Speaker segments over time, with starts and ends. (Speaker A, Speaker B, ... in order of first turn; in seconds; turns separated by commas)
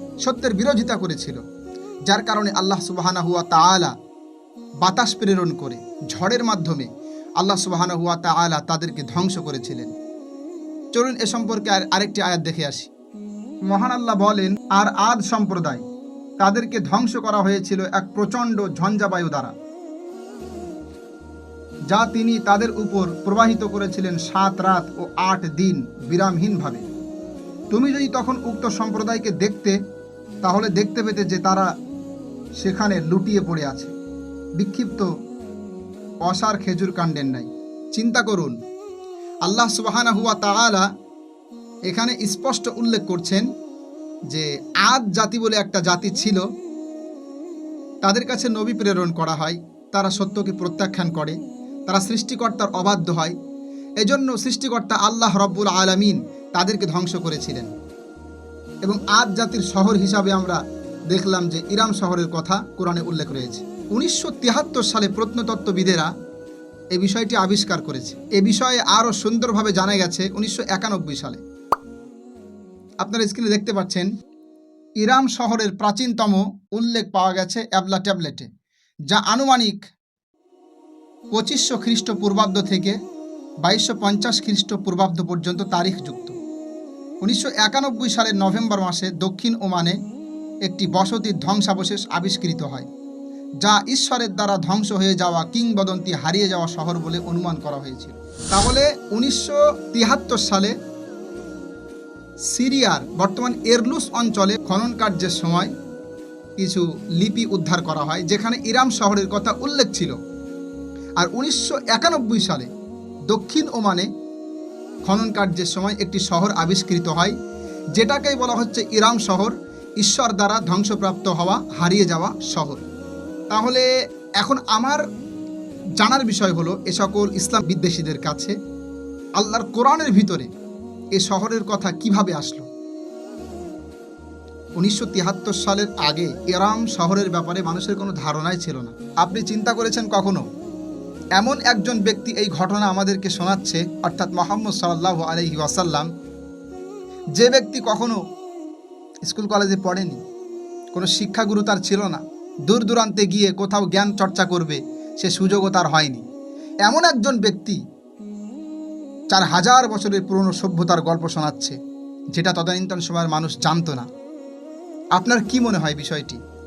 Speaker A: 0.2-1.4, Speaker A: 2.1-3.9, Speaker A: 4.8-6.9, Speaker A: 7.4-9.9, Speaker A: 10.9-12.9, Speaker A: 13.7-15.8, Speaker A: 16.4-19.5, Speaker A: 21.9-26.8, Speaker A: 27.7-29.8, Speaker A: 30.4-31.6, Speaker A: 32.6-33.9, Speaker A: 34.6-35.1, Speaker A: 36.2-38.5, Speaker A: 39.5-40.8, Speaker A: 41.9-43.5, Speaker A: 44.3-46.4, Speaker A: 48.0-51.4, Speaker A: 51.9-53.3, Speaker A: 54.0-57.7, Speaker A: 58.8-60.6, Speaker A: 61.1-66.1, Speaker A: 66.9-71.4, Speaker A: 73.0-74.1, Speaker A: 75.0-78.5, Speaker A: 79.1-79.8, Speaker A: 81.3-83.0, Speaker A: 83.6-86.3, Speaker A: 87.2-90.0, Speaker A: 90.7-92.8, Speaker A: 93.6-100.7, Speaker A: 102.5-105.7, Speaker A: 106.6-110.2, Speaker A: 111.2-112.7, Speaker A: 113.3-114.1, Speaker A: 115.0-117.3, Speaker A: 117.9-122.8, Speaker A: 123.5-123.9, Speaker A: 124.4-125.0, Speaker A: 126.0-128.5, Speaker A: 129.4-130.5, Speaker A: 131.1-132.7, Speaker A: 134.8-140.4, Speaker A: 141.4-146.1, Speaker A: 147.4-148.2, Speaker A: 149.2-150.2, Speaker A: 150.9-156.2, Speaker A: 156.8-157.8, Speaker A: 159.3-161.8, Speaker A: 162.3-164.0, Speaker A: 165.2-166.4